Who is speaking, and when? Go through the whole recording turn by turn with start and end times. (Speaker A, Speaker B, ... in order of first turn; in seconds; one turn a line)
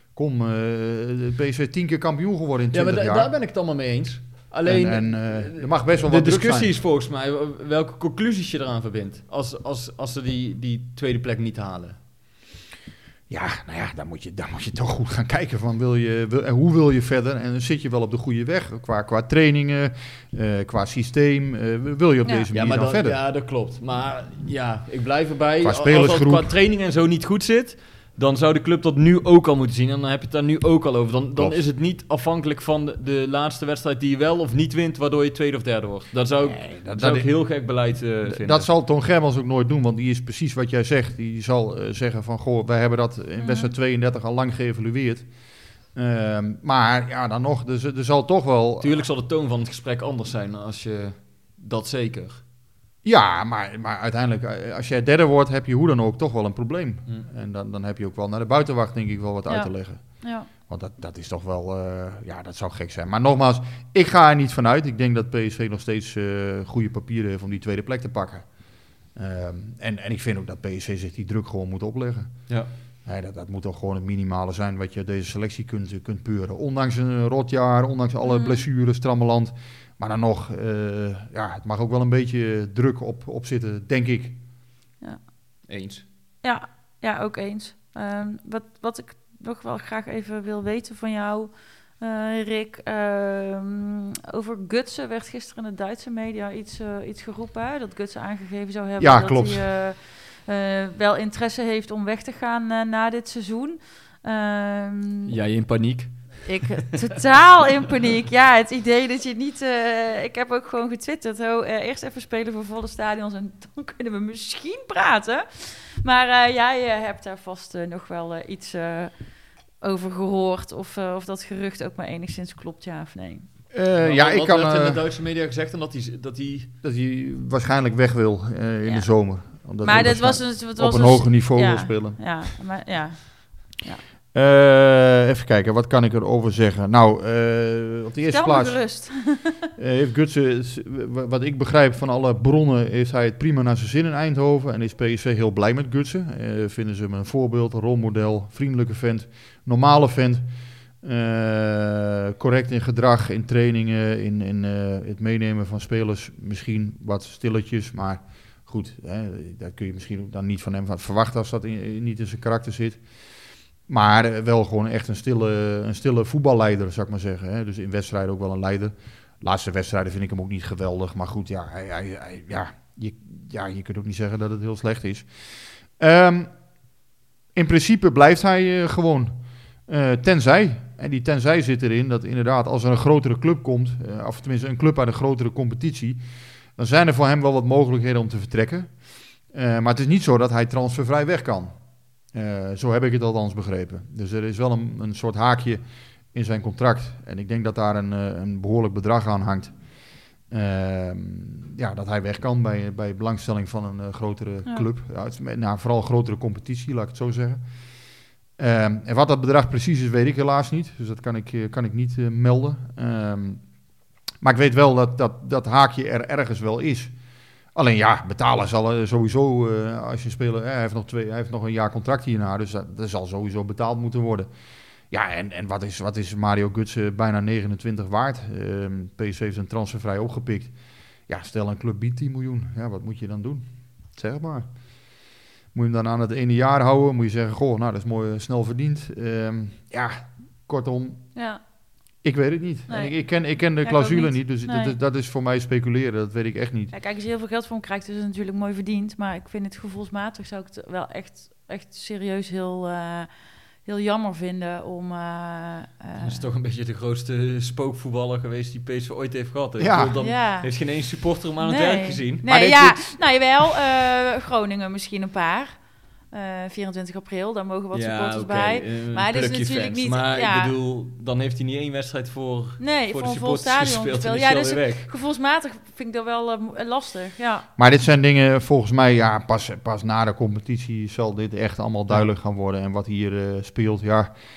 Speaker A: 0.2-3.3
Speaker B: 2.7-12.0
Speaker A: 4.6-6.7
Speaker A: 13.3-23.2
Speaker B: 22.5-38.7
Speaker A: 25.6-26.5
Speaker A: 31.4-31.6
Speaker A: 36.4-37.3
Speaker A: 38.3-45.3
Speaker C: 43.4-43.7
Speaker A: 45.9-49.0
Speaker B: 48.8-52.4
Speaker A: 53.0-72.5
Speaker C: 59.5-60.5
Speaker A: 73.0-84.4
Speaker C: 78.3-78.6
Speaker C: 85.0-85.3
Speaker B: 85.7-86.0
Speaker C: 86.4-105.3
Speaker A: 99.0-99.7
Speaker B: 105.3-106.6
Speaker C: 106.5-123.5
Speaker A: 123.7-125.0
Speaker B: 124.0-126.7
Speaker A: 126.8-132.4
Speaker C: 129.8-134.0
Speaker A: 134.3-150.5
Speaker C: 138.3-139.6
Speaker A: 151.0-163.0
Speaker A: 163.9-176.6
Speaker A: 177.5-186.2
Speaker A: 186.8-191.8
Speaker A: 192.3-195.8
Speaker A: 196.3-207.6
Speaker A: 208.6-213.6
Speaker A: 214.4-217.1
Speaker A: 217.8-224.5
Speaker A: 225.1-230.7
Speaker A: 231.3-234.7
Speaker A: 235.7-241.3
Speaker C: 241.3-241.6
Speaker A: 242.2-246.9
Speaker C: 242.9-244.9
Speaker C: 246.9-253.3
Speaker C: 253.8-256.4
Speaker B: 256.2-263.5
Speaker A: 259.8-260.2
Speaker C: 260.2-260.7
Speaker C: 261.6-270.7
Speaker B: 267.9-275.1
Speaker C: 272.8-277.7
Speaker A: 277.8-284.4